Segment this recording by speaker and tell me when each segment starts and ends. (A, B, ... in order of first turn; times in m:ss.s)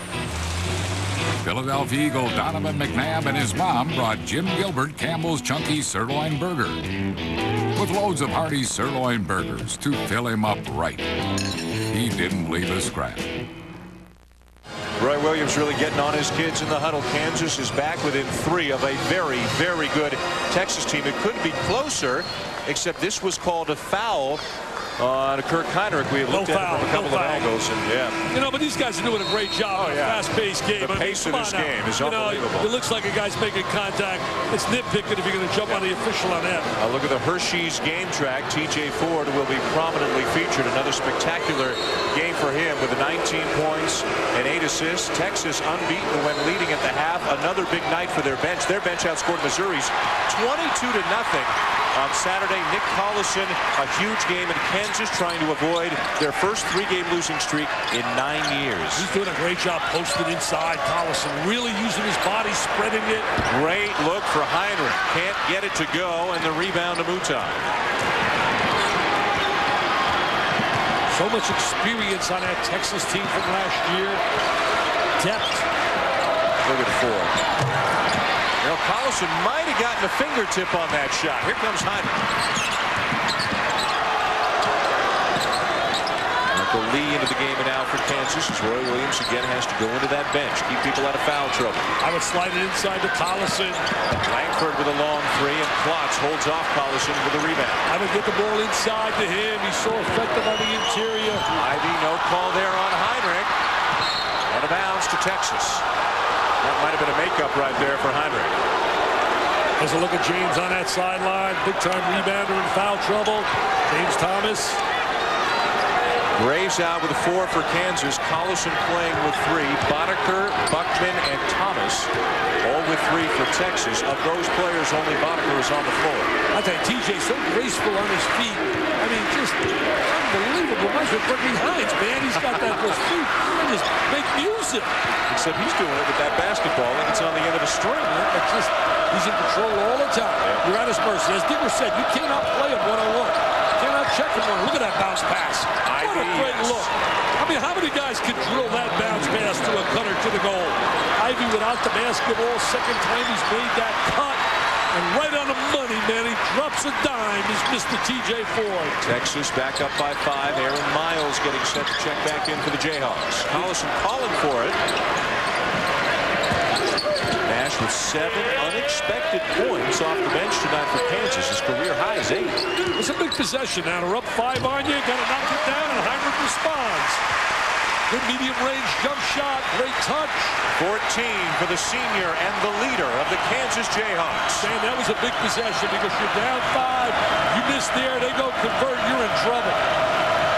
0:01.4-0:06.8 A
0:07.7-0:11.1 A
0:11.9-0:13.4 A
0:15.0-0:24.4 B
0:25.0-0:28.2 B
0:26.3-0:27.5 C
0:28.3-0:36.7 C
0:29.7-0:32.7 B
0:36.8-0:59.1 B
0:59.0-1:03.3 C
1:03.5-1:07.6 B
1:11.1-1:14.2 C
1:15.2-1:15.6 C
1:16.6-1:17.4 B
1:18.6-1:22.1 B
1:26.5-1:31.9 B
1:32.0-1:33.8 C
1:34.1-1:37.8 B
1:37.9-1:41.4 C
1:41.5-1:43.5 B
1:44.5-1:45.8 B
1:46.6-1:48.6 B
1:49.8-1:54.8 C
1:56.4-2:02.1 B
2:02.6-2:06.3 B
2:06.5-2:14.9 C
2:15.3-2:18.1 B
2:18.0-2:39.0 C
2:25.8-2:26.9 B
2:39.0-2:44.8 B
2:47.4-2:52.6 B
2:53.0-2:57.2 C
2:58.1-3:00.6 C
3:00.8-3:04.7 B
3:04.6-3:09.8 C